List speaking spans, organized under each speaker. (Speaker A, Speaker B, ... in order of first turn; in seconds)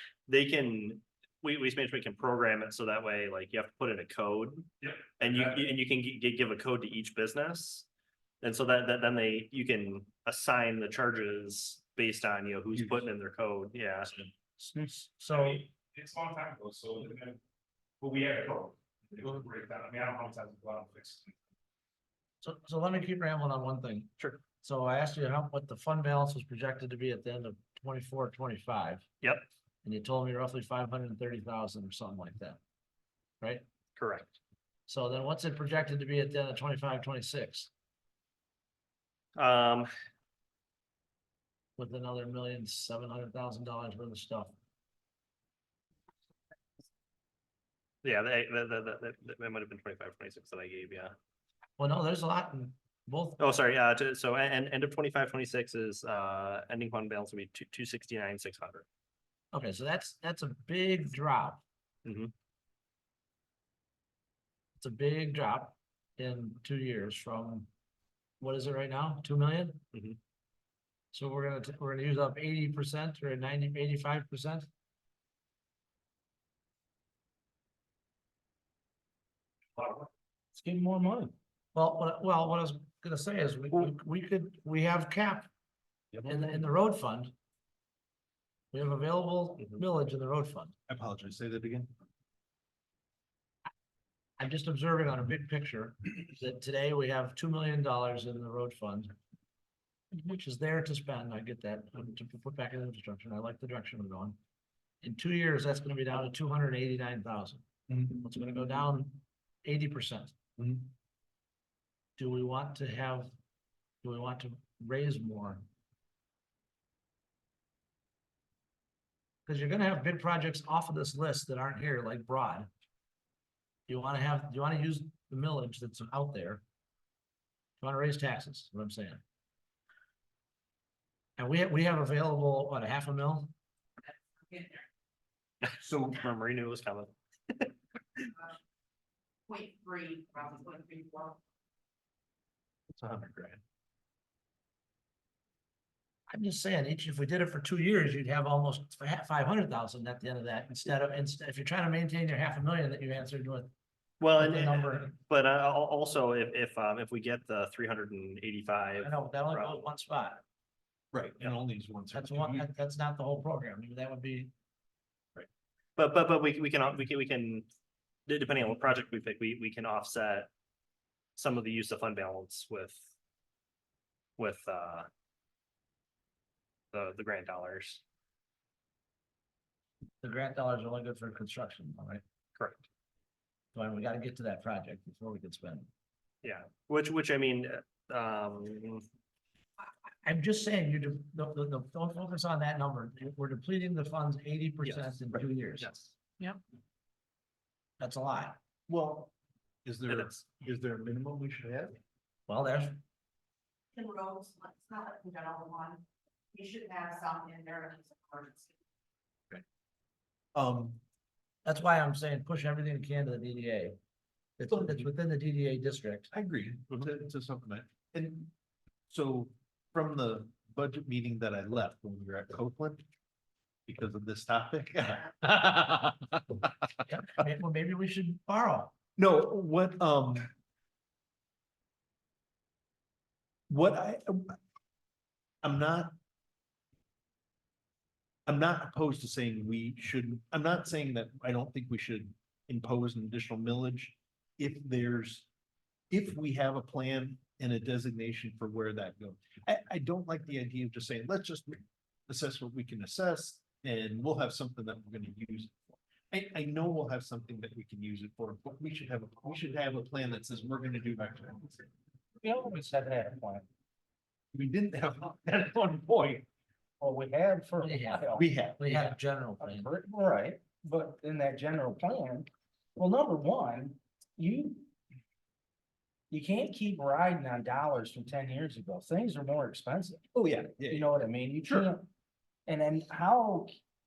Speaker A: 0.3-7.9, 8.4-14.3, 34.0-34.4, 39.4-39.9, 48.0-51.1, 53.4-58.9, 62.0-62.3, 69.9-70.2, 135.6-137.7, 154.2-159.8, 166.0-167.7, 168.3-170.5, 171.4-173.0, 174.4-175.1, 176.9-178.0, 182.6-182.8, 186.4-189.1, 195.8-196.1, 200.1-200.4
Speaker B: 4.8-5.6, 15.3-17.4, 18.0-21.4
Speaker C: 12.8-13.0, 86.1-86.4, 90.9-91.9, 107.9-108.2, 110.6-110.9, 135.8-136.1, 142.9-143.6, 161.1-162.7, 198.9-199.3, 199.8-202.0, 210.6-211.0, 214.7-215.1, 216.3-218.5, 219.1-223.1, 223.9-226.6, 229.2-230.5, 233.7-234.6, 235.6-236.2, 238.5-245.5, 246.1-261.9, 264.5-266.5, 268.4-269.1, 280.3-281.1, 281.6-281.9
Speaker D: 14.6-15.6, 22.4-29.1, 29.8-32.6, 34.9-37.7, 41.8-44.5, 51.8-53.4, 59.5-61.6, 64.8-67.7, 68.4-69.8, 71.1-74.7, 81.7-85.5, 86.3-87.3, 88.7-90.7, 94.4-99.1, 100.2-104.4, 105.0-110.3, 112.2-113.3, 114.0-115.7, 119.5-122.7, 123.9-126.6, 127.8-129.2, 131.4-133.5, 146.3-153.7, 154.4-155.1, 159.0-160.4, 162.1-164.5, 180.2-182.2, 183.7-185.9, 190.2-195.9, 198.0-198.6, 202.5-203.0, 211.7-214.0, 214.6-216.3, 227.1-228.9, 267.8-269.9
Speaker E: 80.5-81.3, 262.4-263.7, 267.0-268.5, 269.6-274.9, 276.3-280.3, 280.9-282.1, 282.7-283.8
Speaker F: 134.4-134.8, 139.5-141.4, 203.9-208.7